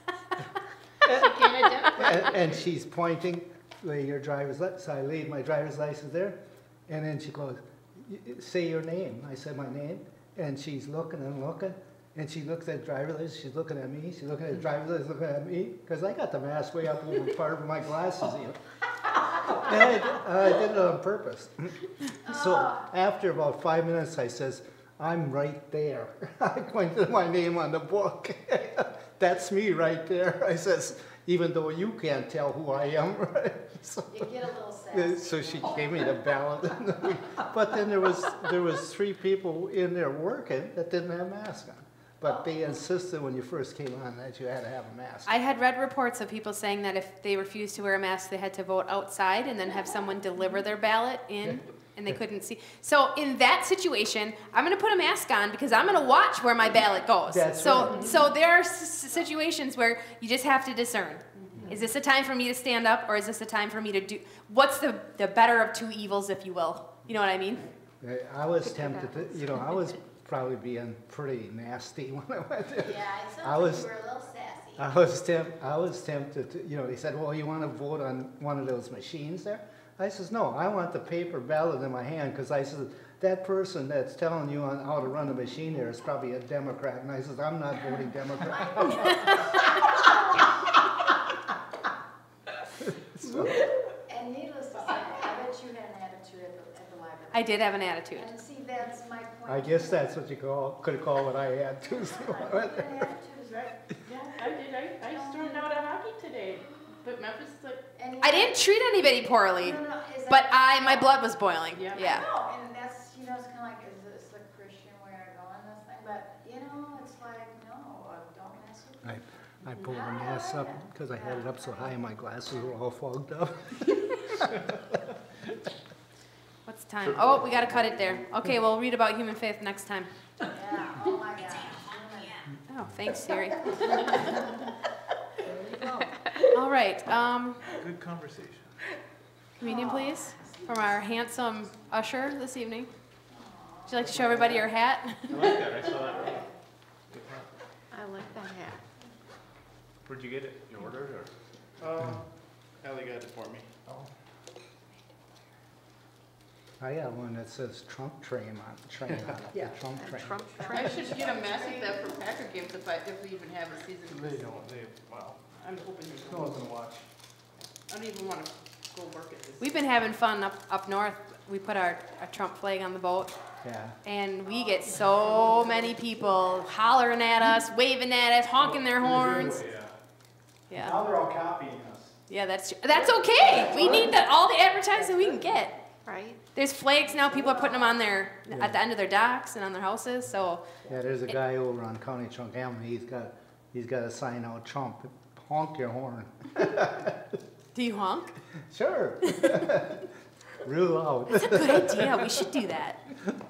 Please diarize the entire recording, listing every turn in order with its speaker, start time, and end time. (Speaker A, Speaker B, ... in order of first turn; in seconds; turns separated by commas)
Speaker A: 1.0-2.6, Speaker B: 1.1-18.6, Speaker B: 19.5-34.3, Speaker C: 22.2-22.8, Speaker C: 34.1-36.2, Speaker B: 34.9-45.3, Speaker C: 42.2-42.6, Speaker D: 45.2-67.7, Speaker B: 57.3-58.2, Speaker A: 61.4-61.6, Speaker B: 68.0-73.9, Speaker E: 68.8-69.6, Speaker C: 72.8-74.9, Speaker B: 74.8-89.3, Speaker C: 88.5-90.5, Speaker B: 93.2-93.6, Speaker C: 94.1-100.0, Speaker D: 97.3-98.3, Speaker B: 99.5-103.0, Speaker C: 101.9-103.8, Speaker A: 103.5-107.8, Speaker C: 105.0-105.7, Speaker C: 107.9-108.6, Speaker D: 108.2-112.2, Speaker C: 109.6-111.2, Speaker A: 111.7-112.2, Speaker C: 111.9-122.8, Speaker B: 119.0-124.5, Speaker D: 126.7-130.1, Speaker F: 127.1-127.3, Speaker C: 130.5-132.5, Speaker D: 132.7-134.2, Speaker C: 133.7-134.4, Speaker C: 135.4-136.2, Speaker D: 136.5-137.6, Speaker F: 137.7-138.7, Speaker D: 139.6-142.9, Speaker C: 139.6-141.1, Speaker C: 143.3-144.3, Speaker D: 143.8-145.3, Speaker F: 145.3-146.5, Speaker C: 146.0-146.5, Speaker F: 147.1-147.5, Speaker E: 147.9-148.8, Speaker F: 150.1-151.3, Speaker G: 151.8-152.2, Speaker G: 152.8-153.7, Speaker B: 156.8-160.8, Speaker E: 159.9-161.4, Speaker C: 160.5-161.9, Speaker A: 160.7-164.7, Speaker G: 164.1-165.4, Speaker A: 165.5-166.6, Speaker G: 166.2-167.0, Speaker A: 167.9-169.9, Speaker D: 169.6-173.3, Speaker B: 173.6-173.9, Speaker D: 174.0-179.6, Speaker G: 178.6-179.9, Speaker D: 180.7-181.0, Speaker G: 180.7-182.2, Speaker D: 182.3-185.7, Speaker G: 183.6-184.1, Speaker E: 186.0-186.4, Speaker D: 186.5-190.7, Speaker C: 187.0-188.0, Speaker B: 188.5-188.8, Speaker B: 190.8-197.2, Speaker D: 197.7-198.3, Speaker B: 198.7-200.0, Speaker B: 200.6-202.3, Speaker D: 201.5-203.0